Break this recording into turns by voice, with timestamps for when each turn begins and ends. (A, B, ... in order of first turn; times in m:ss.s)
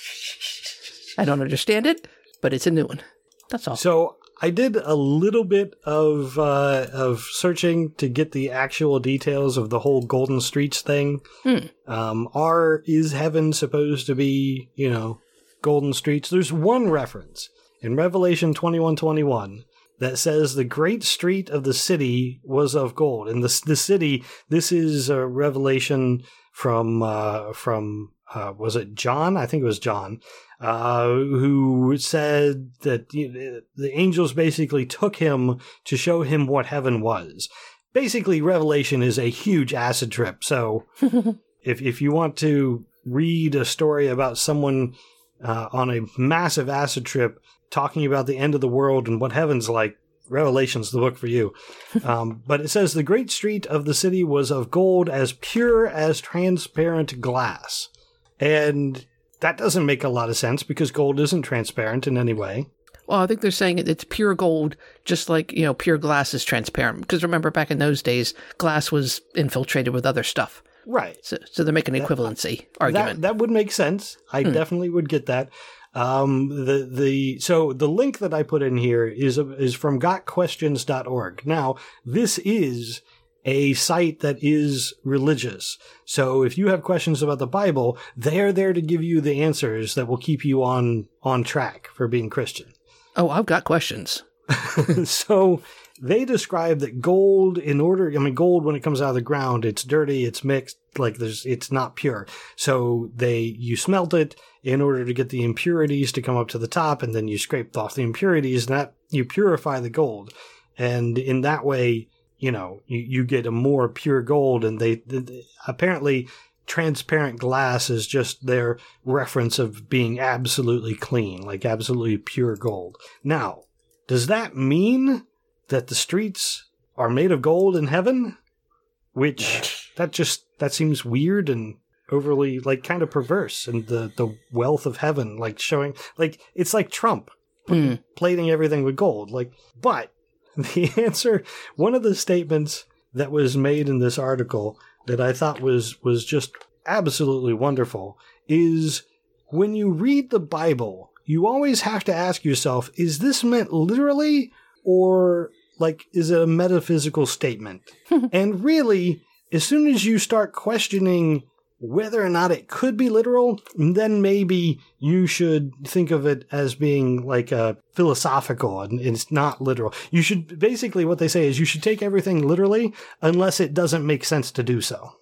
0:01.2-0:03.8 A
0:03.7-0:11.2 B
0:11.4-0:11.7 A
0:11.8-0:40.9 B
0:41.6-1:02.7 B
1:03.1-1:10.6 A
1:10.9-1:11.2 B
1:11.2-1:13.2 A
1:12.8-1:32.7 B
1:33.2-1:34.2 A
1:34.5-2:08.4 B
2:09.2-2:55.1 B
2:17.7-2:18.0 A